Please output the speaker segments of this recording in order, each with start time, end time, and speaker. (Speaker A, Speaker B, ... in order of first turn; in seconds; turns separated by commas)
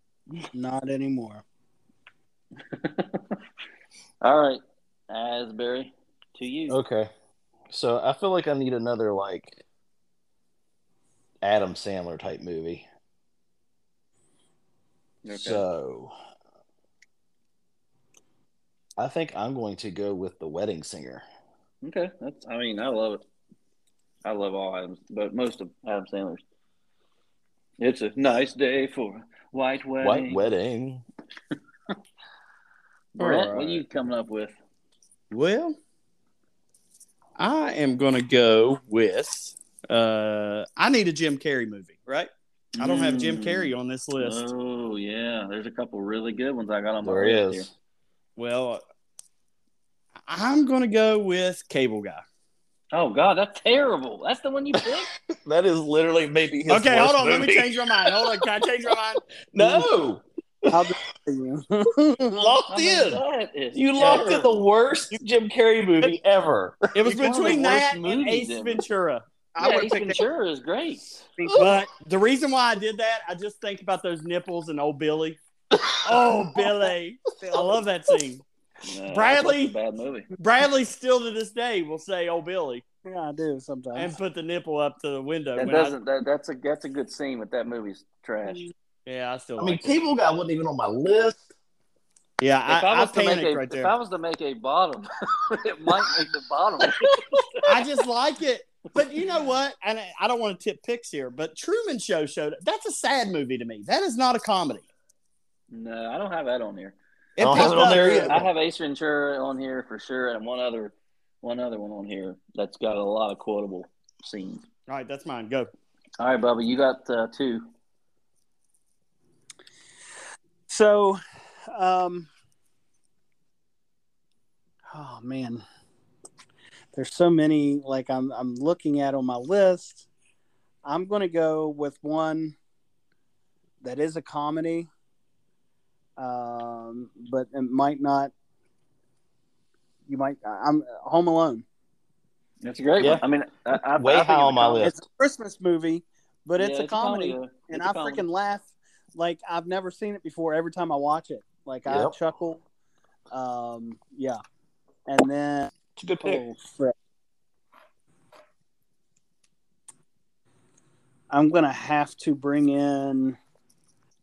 Speaker A: 0.5-1.4, Speaker B: 2.6-3.4, Speaker B: 4.2-6.8, Speaker C: 6.7-7.1, Speaker C: 7.7-9.6, Speaker C: 11.4-12.8, Speaker B: 15.2-15.6, Speaker C: 15.3-16.1, Speaker C: 19.0-21.2, Speaker B: 21.8-23.2, Speaker B: 24.2-26.4, Speaker B: 27.8-30.4, Speaker C: 30.0-31.0, Speaker B: 33.2-34.5, Speaker D: 33.2-33.8, Speaker D: 35.3-35.8, Speaker D: 37.4-44.5, Speaker B: 42.8-47.7, Speaker C: 47.0-47.7, Speaker D: 48.4-48.8, Speaker D: 50.3-52.2, Speaker B: 52.9-55.1, Speaker C: 55.3-58.4, Speaker D: 56.7-59.2, Speaker C: 59.5-60.9, Speaker A: 59.6-59.9, Speaker A: 60.7-62.6, Speaker C: 62.4-63.2, Speaker B: 62.7-64.6, Speaker C: 63.7-67.1, Speaker D: 66.9-69.2, Speaker B: 67.1-68.8, Speaker A: 69.5-70.2, Speaker B: 69.6-71.1, Speaker A: 71.4-71.8, Speaker C: 71.5-71.7, Speaker D: 71.6-75.4, Speaker C: 75.7-76.7, Speaker D: 76.0-78.4, Speaker A: 77.4-77.8, Speaker B: 78.8-80.3, Speaker D: 79.1-79.7, Speaker D: 80.4-82.8, Speaker A: 83.1-84.1, Speaker D: 84.0-86.0, Speaker B: 85.6-88.7, Speaker D: 89.1-90.0, Speaker C: 89.6-91.4, Speaker D: 92.4-93.9, Speaker B: 92.7-97.7, Speaker D: 97.7-104.8, Speaker B: 105.7-114.7, Speaker D: 107.4-108.4, Speaker C: 107.4-108.5, Speaker D: 114.9-115.7, Speaker B: 116.2-117.7, Speaker A: 120.7-121.2, Speaker A: 121.7-122.3, Speaker A: 124.9-125.6, Speaker A: 126.9-130.1, Speaker A: 130.8-132.6, Speaker A: 133.8-134.9, Speaker A: 136.2-138.3, Speaker A: 140.1-141.6, Speaker B: 142.6-144.9, Speaker C: 143.0-145.0, Speaker A: 144.8-152.6, Speaker B: 146.6-148.2, Speaker C: 151.9-152.1, Speaker A: 153.3-154.4, Speaker A: 155.1-155.7, Speaker C: 156.0-156.4, Speaker A: 156.2-156.9, Speaker A: 161.3-163.4